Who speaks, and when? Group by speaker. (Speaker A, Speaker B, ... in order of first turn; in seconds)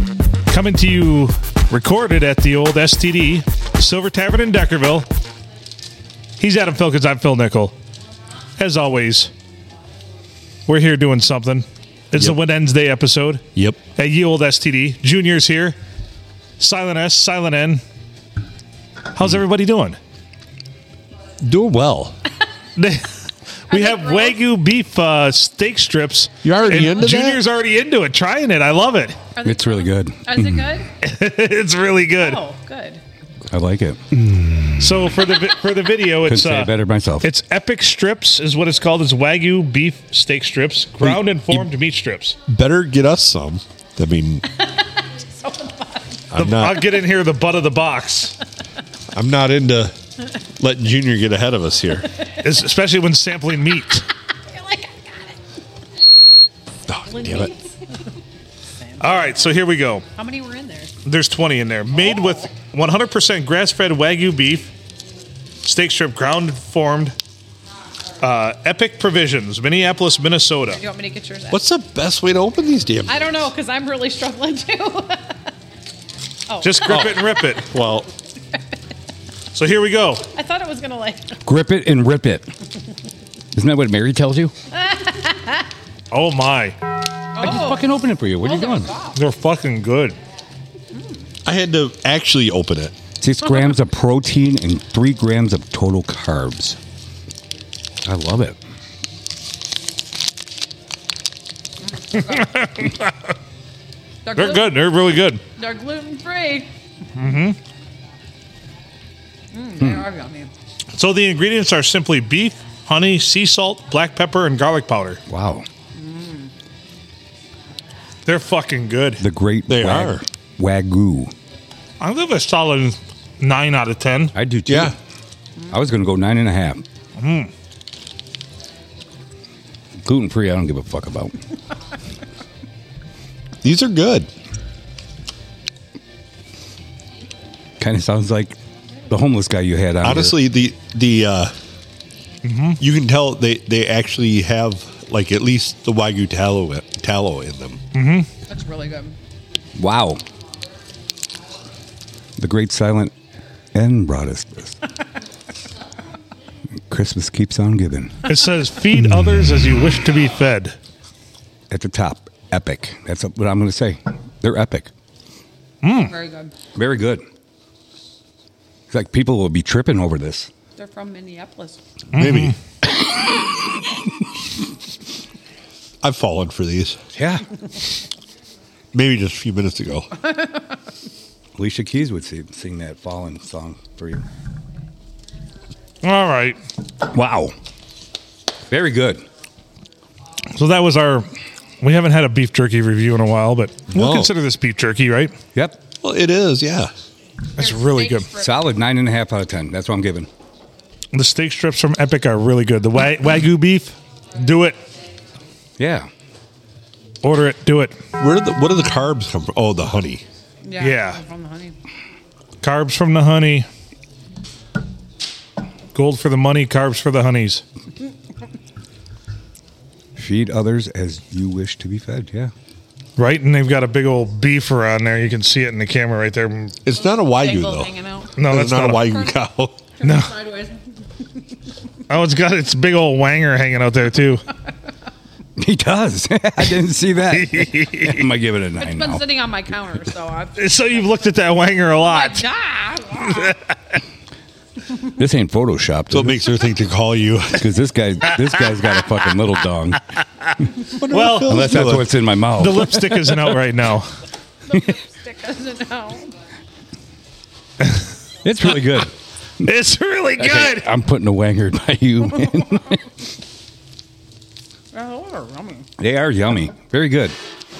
Speaker A: 0.5-5.1, 6.4-7.8, 8.6-9.3, 10.7-15.8, 16.6-17.8, 19.1-20.0, 22.8-23.1, 23.7-29.2, 31.0-32.4, 34.8-42.4, 46.4-48.4, 52.4-54.1, 59.0-60.0, 61.0-64.7, 65.6-67.2, 68.2-70.8, 76.6-77.7, 79.5-80.2, 86.1-86.8, 89.1-90.2, 102.1-103.3, 104.3-105.4, 107.2-107.6, 110.9-115.2, 118.2-119.2, 122.0-124.3, 127.2-127.5, 142.4-142.8, 147.9-148.3, 158.2-160.8, 165.8-166.1, 172.1-172.5, 186.0-186.6, 190.5-191.3, 191.8-195.3, 197.6-198.3, 201.1-204.8, 207.2-208.0, 210.8-211.2, 212.6-213.7, 215.9-217.6, 223.2-226.8, 228.4-229.2, 230.0-230.3, 232.1-234.4, 237.3-238.2, 240.6-242.4, 243.3-243.7, 251.0-251.8, 252.6-254.1, 259.6-260.9
Speaker B: 21.4-22.2, 26.4-27.4, 41.0-41.7, 42.5-44.5, 46.3-46.9, 49.1-49.9, 50.6-52.2, 56.9-57.5, 71.5-73.4, 76.8-78.1, 91.5-92.9, 119.7-120.2, 124.7-125.0, 133.6-134.3, 140.0-141.5, 142.8-147.8, 172.1-172.5, 176.0-177.0, 178.9-180.2, 193.9-194.3, 196.0-196.9, 208.2-210.2, 226.8-229.8, 246.1-247.7, 250.9-252.1
Speaker C: 23.7-24.4, 29.3-30.9, 32.2-33.0, 44.6-46.3, 54.3-55.4, 57.0-57.7, 58.8-59.4, 60.1-61.0, 70.7-71.6, 73.0-75.5, 76.5-77.0, 80.3-81.4, 84.7-85.7, 87.3-87.9, 88.4-89.2, 90.9-91.2, 102.1-102.4, 104.2-104.9, 105.5-106.7, 109.5-110.5, 115.9-116.5, 148.5-149.2, 166.0-166.5, 170.8-171.8, 197.6-198.6, 210.6-211.8, 227.0-228.4, 230.0-230.8, 238.8-241.1, 242.0-243.5, 254.7-256.3, 264.9-265.9
Speaker D: 29.4-30.7, 33.5-35.0, 36.2-37.3, 81.4-82.5, 83.5-84.5, 87.4-88.9, 93.2-96.8, 98.0-98.6, 109.8-110.1, 115.3-115.7, 119.2-121.3, 124.3-125.0, 125.7-126.8, 130.0-131.4, 137.8-138.6, 139.1-140.3, 149.8-150.2, 152.4-153.1, 153.7-154.8, 156.9-158.2, 161.7-164.9, 166.8-167.2, 168.9-170.5, 177.1-177.4, 181.6-184.2, 187.1-187.5, 188.7-189.2, 198.3-200.3, 205.8-206.1, 220.2-222.5, 235.6-239.2, 245.2-246.4, 247.6-250.0, 251.4-253.3, 258.4-259.1, 260.4-263.0, 266.0-267.4